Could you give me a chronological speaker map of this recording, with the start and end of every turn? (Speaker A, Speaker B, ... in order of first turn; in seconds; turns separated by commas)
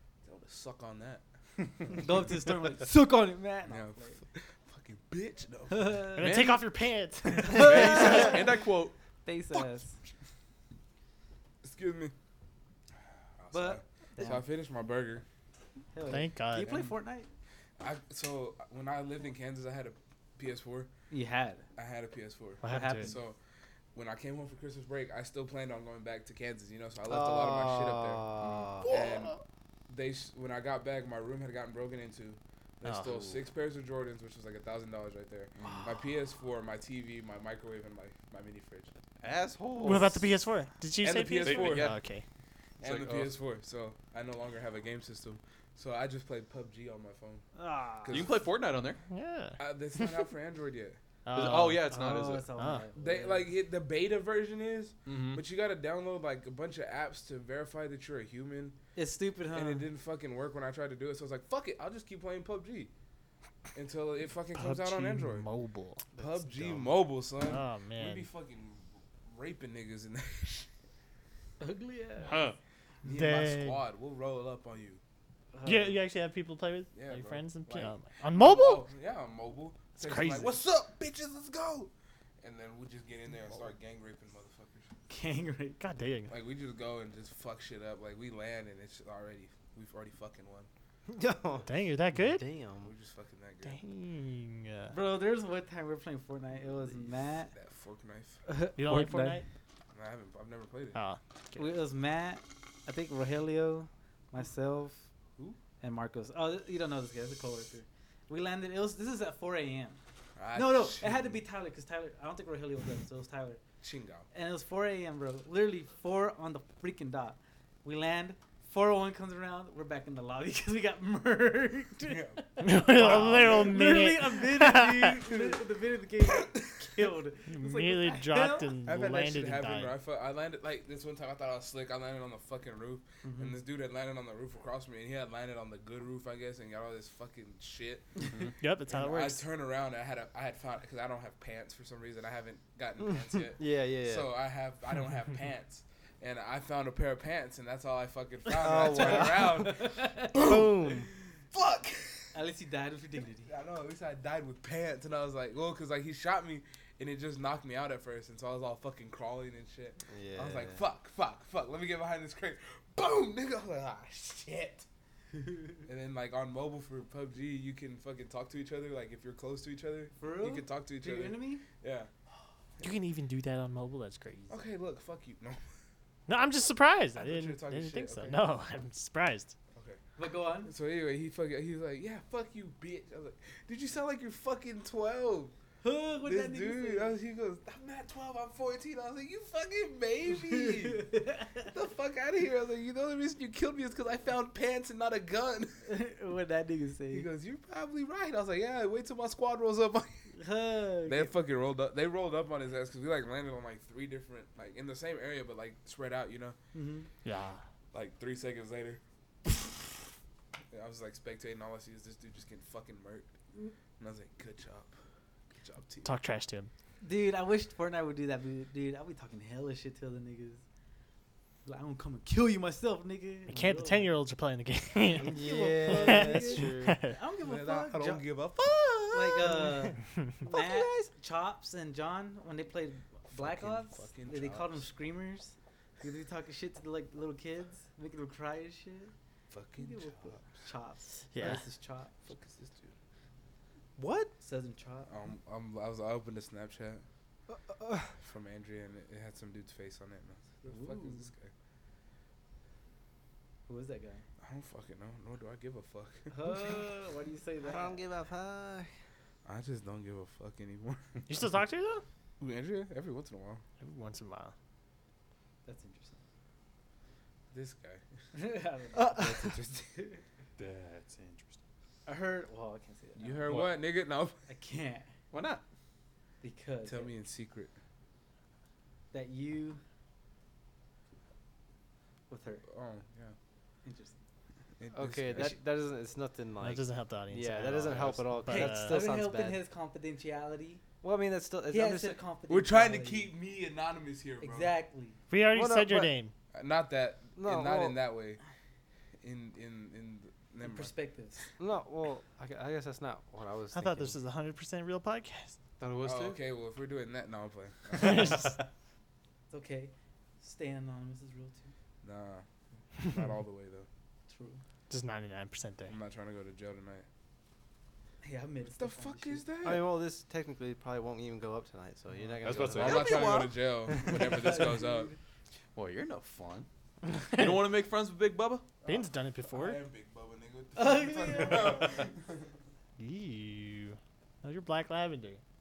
Speaker A: 0.2-1.2, Speaker B: 1.9-4.2, Speaker A: 3.6-6.1, Speaker B: 5.7-6.3, Speaker C: 6.1-8.3, Speaker D: 6.2-6.6, Speaker D: 7.4-9.0, Speaker B: 7.4-8.6, Speaker B: 9.2-10.0, Speaker A: 11.6-12.1, Speaker A: 13.4-15.3, Speaker B: 13.5-14.5, Speaker B: 15.9-17.3, Speaker C: 16.1-16.9, Speaker A: 17.8-20.9, Speaker B: 21.1-21.7, Speaker A: 21.8-23.4, Speaker B: 22.6-23.2, Speaker C: 22.6-23.1, Speaker A: 23.9-28.2, Speaker E: 27.1-28.9, Speaker D: 28.4-28.8, Speaker A: 28.9-29.4, Speaker A: 29.9-38.9, Speaker C: 32.8-33.4, Speaker D: 39.2-40.2, Speaker C: 39.8-42.2, Speaker A: 41.0-41.9, Speaker D: 41.4-42.0, Speaker D: 42.8-43.4, Speaker A: 42.8-47.5, Speaker C: 47.6-48.1, Speaker A: 48.0-48.4, Speaker D: 48.1-49.0, Speaker C: 49.1-50.2, Speaker A: 49.6-51.0, Speaker C: 51.3-52.9, Speaker D: 51.3-52.5, Speaker B: 51.8-53.5, Speaker A: 53.0-58.8, Speaker D: 55.1-55.4, Speaker B: 59.0-59.9, Speaker A: 59.5-62.9, Speaker A: 63.8-65.5, Speaker C: 64.5-66.1, Speaker A: 66.2-70.7, Speaker C: 67.4-68.3, Speaker B: 71.6-72.5, Speaker D: 72.2-72.6, Speaker A: 73.0-75.0, Speaker C: 73.0-73.8, Speaker B: 75.5-76.0, Speaker C: 75.6-78.9, Speaker A: 76.9-84.9, Speaker C: 80.0-80.6, Speaker B: 85.1-85.8, Speaker C: 85.8-86.3, Speaker A: 86.3-90.7, Speaker E: 91.1-92.9, Speaker C: 91.7-92.5, Speaker A: 92.8-93.8, Speaker C: 93.6-95.0, Speaker B: 94.9-97.5, Speaker A: 97.3-98.4, Speaker B: 98.5-99.4, Speaker C: 98.8-99.5, Speaker A: 99.9-101.0, Speaker C: 100.9-101.7, Speaker B: 101.6-105.1, Speaker B: 105.6-110.0, Speaker A: 110.4-111.4, Speaker B: 110.5-113.6, Speaker A: 113.8-114.3, Speaker B: 114.3-128.8, Speaker A: 122.0-124.0, Speaker C: 122.6-125.3, Speaker A: 126.3-127.1, Speaker C: 127.5-130.0, Speaker A: 128.8-138.2, Speaker B: 133.2-133.6, Speaker D: 138.2-138.5, Speaker C: 138.6-139.5, Speaker A: 138.9-152.4, Speaker E: 143.0-144.3, Speaker E: 148.6-149.7, Speaker B: 148.6-150.5, Speaker E: 150.3-151.1, Speaker B: 152.3-153.5, Speaker A: 153.5-164.9, Speaker E: 160.1-160.8, Speaker A: 165.9-172.1, Speaker B: 170.2-171.7, Speaker C: 172.8-174.6, Speaker A: 174.5-175.6, Speaker C: 176.3-179.5, Speaker A: 177.2-178.5, Speaker A: 179.7-180.0, Speaker B: 180.2-180.7, Speaker A: 180.6-185.5, Speaker B: 185.8-187.2, Speaker A: 186.2-195.9, Speaker B: 190.3-191.7, Speaker B: 195.9-197.3, Speaker A: 197.1-200.2, Speaker B: 200.3-201.3, Speaker A: 201.0-206.6, Speaker B: 206.7-207.1, Speaker C: 207.2-207.6, Speaker A: 207.9-210.0, Speaker A: 210.7-213.3, Speaker A: 214.0-214.9, Speaker A: 215.6-216.1, Speaker C: 216.0-216.7, Speaker B: 217.0-220.6, Speaker B: 221.6-224.2, Speaker C: 223.5-227.2, Speaker E: 225.2-227.0, Speaker B: 225.2-228.2, Speaker A: 227.4-228.7, Speaker E: 228.6-231.1, Speaker B: 229.1-239.1, Speaker A: 233.3-234.9, Speaker A: 239.5-240.6, Speaker B: 239.8-242.1, Speaker C: 241.3-241.6, Speaker A: 242.2-243.0, Speaker E: 244.0-244.3, Speaker B: 244.4-245.1, Speaker A: 245.1-247.0, Speaker E: 247.5-248.1, Speaker A: 248.2-251.5, Speaker B: 250.7-251.3, Speaker B: 253.7-254.2, Speaker A: 254.4-256.9, Speaker B: 256.3-258.0, Speaker E: 257.6-258.9, Speaker A: 259.4-261.1, Speaker C: 261.3-262.1, Speaker A: 262.4-263.6, Speaker C: 263.8-264.5, Speaker B: 265.6-266.2, Speaker A: 267.5-268.0, Speaker B: 268.3-270.2, Speaker E: 268.9-269.5, Speaker A: 269.1-269.9, Speaker D: 270.6-271.6, Speaker B: 272.1-273.6, Speaker A: 273.2-274.4, Speaker D: 273.5-273.8, Speaker B: 274.5-275.1, Speaker D: 275.3-275.6, Speaker B: 276.4-277.1, Speaker A: 276.8-277.7, Speaker B: 279.1-279.8, Speaker B: 282.3-282.6, Speaker A: 282.7-283.4, Speaker B: 283.9-284.2, Speaker A: 284.8-285.6, Speaker E: 284.9-289.6, Speaker C: 286.6-289.0, Speaker D: 287.9-288.2, Speaker B: 288.5-290.8, Speaker E: 291.0-292.2, Speaker B: 291.7-293.3, Speaker A: 292.5-294.8, Speaker B: 294.4-295.2, Speaker C: 295.3-296.3, Speaker E: 295.5-296.1, Speaker A: 296.5-298.4, Speaker E: 297.4-298.0, Speaker A: 299.2-300.9, Speaker B: 300.6-301.4, Speaker E: 301.6-304.2, Speaker C: 303.7-305.6, Speaker D: 305.8-306.4, Speaker A: 306.0-308.6, Speaker C: 308.0-308.6, Speaker B: 309.5-311.7, Speaker A: 312.0-312.5, Speaker A: 313.0-313.9, Speaker B: 314.3-314.6, Speaker C: 314.9-316.0, Speaker A: 315.9-317.1, Speaker B: 318.2-319.5, Speaker A: 318.6-319.9, Speaker E: 319.6-324.6, Speaker D: 322.4-323.3, Speaker A: 322.4-325.1, Speaker B: 324.0-325.2, Speaker D: 325.8-326.7, Speaker D: 327.3-328.7, Speaker A: 328.8-332.5, Speaker C: 328.9-329.8, Speaker B: 330.8-332.1, Speaker C: 333.0-335.4